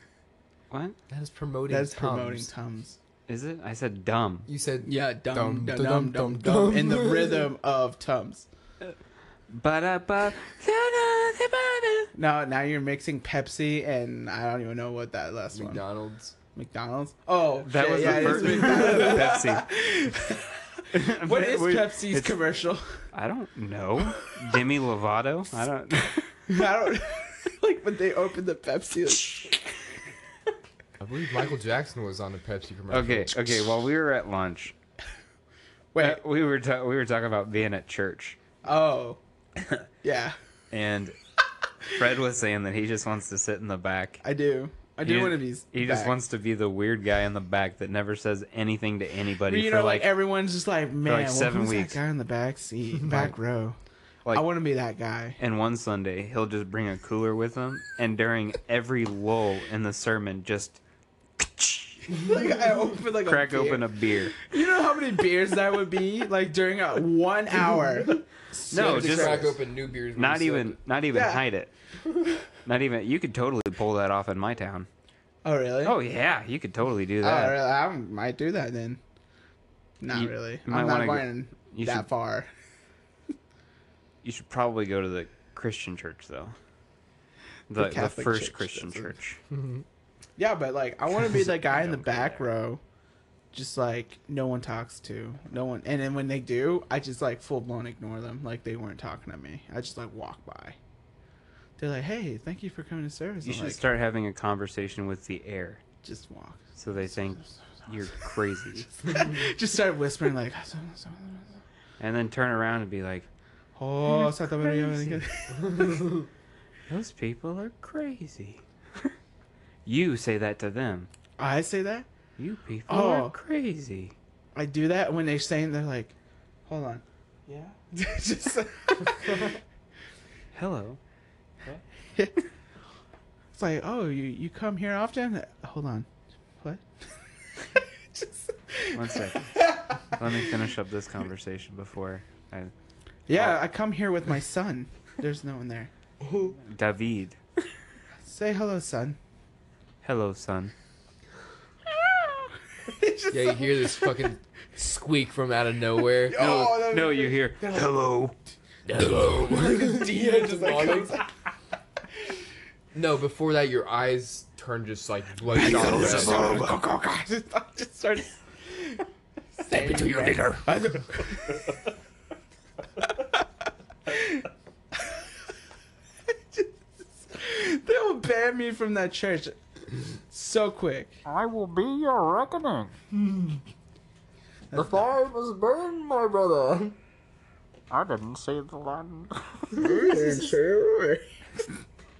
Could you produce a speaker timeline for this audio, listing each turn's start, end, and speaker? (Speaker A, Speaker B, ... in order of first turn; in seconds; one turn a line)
Speaker A: 0.7-1.0
Speaker B: 1.1-2.5
Speaker C: 1.7-3.0
Speaker A: 3.3-4.5
Speaker B: 4.5-7.5
Speaker C: 4.8-8.5
Speaker A: 9.5-12.1
Speaker C: 12.1-15.8
Speaker B: 15.5-16.3
Speaker C: 16.6-20.5
Speaker A: 17.6-19.7
Speaker B: 18.0-19.2
Speaker A: 20.9-22.4
Speaker C: 21.2-23.0
Speaker A: 23.1-26.3
Speaker C: 26.5-29.6
Speaker B: 31.0-33.5
Speaker A: 32.9-34.7
Speaker C: 35.9-36.2
Speaker A: 36.0-38.4
Speaker C: 38.6-39.2
Speaker C: 40.0-40.4
Speaker A: 40.7-41.1
Speaker A: 41.9-44.2
Speaker C: 44.2-46.1
Speaker A: 45.0-50.1
Speaker C: 49.5-53.8
Speaker A: 51.0-52.0
Speaker C: 54.3-55.4
Speaker A: 55.4-60.8
Speaker A: 61.4-62.1
Speaker C: 62.1-69.5
Speaker A: 63.2-64.3
Speaker A: 68.7-69.5
Speaker B: 68.7-70.8
Speaker A: 70.1-71.7
Speaker C: 71.1-71.4
Speaker A: 72.6-74.9
Speaker C: 75.4-76.0
Speaker A: 75.8-77.6
Speaker C: 77.2-79.0
Speaker C: 80.0-82.5
Speaker A: 80.1-82.1
Speaker A: 84.2-86.5
Speaker A: 87.7-89.4
Speaker C: 87.7-89.1
Speaker B: 89.5-89.8
Speaker C: 90.4-92.8
Speaker A: 91.6-92.5
Speaker C: 93.5-100.8
Speaker C: 101.8-103.8
Speaker A: 103.4-105.8
Speaker C: 106.0-108.2
Speaker A: 106.8-108.9
Speaker C: 109.0-111.6
Speaker A: 112.0-113.3
Speaker C: 113.8-116.2
Speaker B: 115.5-116.2
Speaker A: 116.9-119.1
Speaker A: 119.8-121.1
Speaker C: 121.4-122.1
Speaker A: 122.4-124.1
Speaker C: 122.9-123.3
Speaker C: 124.5-126.1
Speaker C: 126.7-129.6
Speaker A: 130.5-131.0
Speaker C: 133.5-136.1
Speaker C: 137.8-140.5
Speaker A: 138.9-142.7
Speaker C: 143.3-145.9
Speaker A: 143.3-143.6
Speaker A: 146.6-147.4
Speaker C: 148.2-149.2
Speaker A: 150.0-150.7
Speaker C: 152.0-154.2
Speaker B: 153.3-156.6
Speaker C: 156.2-158.1
Speaker A: 156.3-158.3
Speaker B: 158.9-161.2
Speaker C: 158.9-161.3
Speaker B: 162.9-166.6
Speaker C: 165.5-169.1
Speaker A: 165.6-166.7
Speaker C: 169.6-171.8
Speaker B: 169.7-170.7
Speaker C: 174.1-174.4
Speaker C: 177.3-179.5
Speaker C: 180.3-181.2
Speaker D: 181.2-182.9
Speaker B: 183.3-183.6
Speaker C: 184.7-185.1
Speaker B: 184.7-187.0
Speaker D: 187.9-191.2
Speaker C: 189.8-190.5